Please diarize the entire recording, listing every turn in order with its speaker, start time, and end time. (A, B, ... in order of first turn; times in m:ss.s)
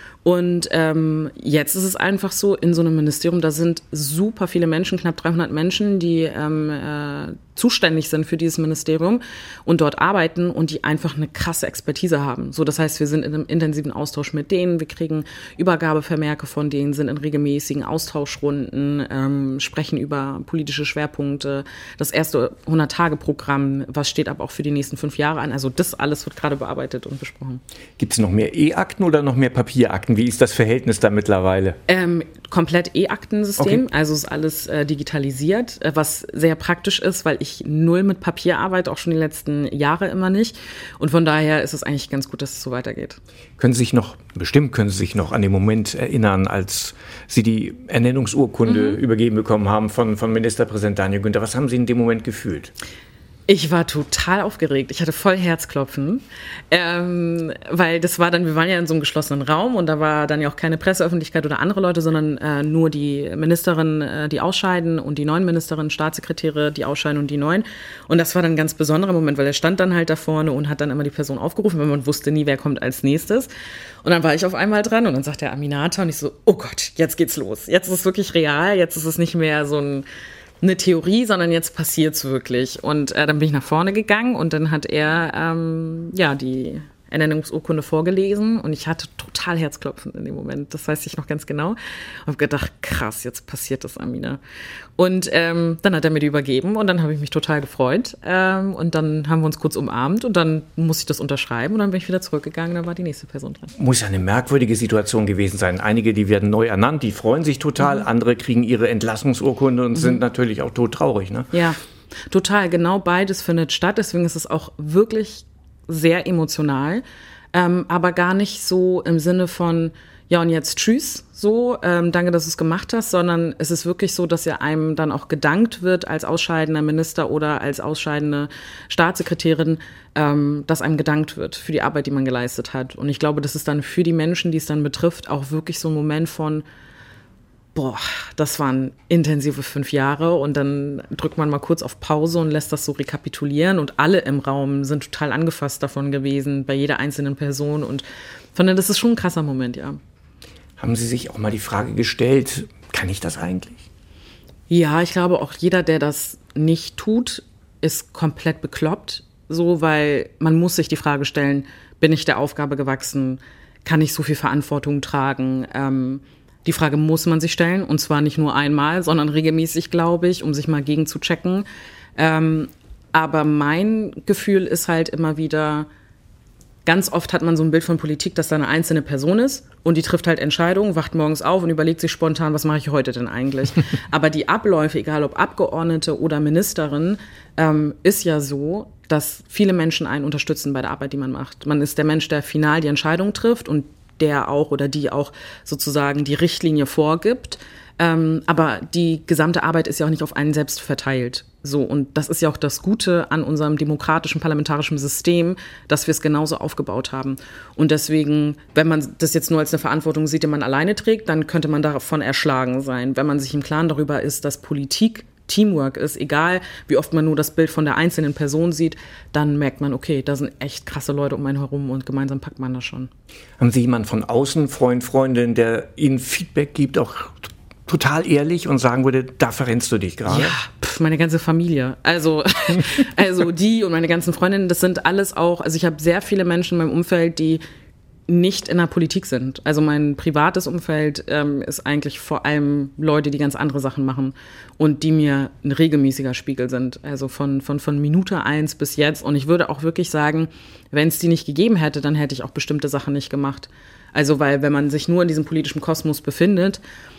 0:00.2-0:27.6 A
0:28.0-0:31.8 B
0:31.9-0:43.2 A
0:43.6-0:52.7 B
0:48.7-0:49.0 A
0:53.5-1:13.5 A
1:14.0-1:20.0 A
1:20.6-1:34.4 A
1:35.0-1:43.7 A
1:43.8-1:51.5 B
1:51.5-1:51.8 A
1:52.3-2:16.6 A
2:17.8-2:28.0 A
2:28.6-2:30.0 A
2:30.8-2:33.8 B
2:34.7-2:51.6 A
2:52.2-2:55.9 A
2:56.9-3:43.1 A
3:43.6-3:50.6 B
3:50.3-3:57.6 A
3:58.3-4:16.8 A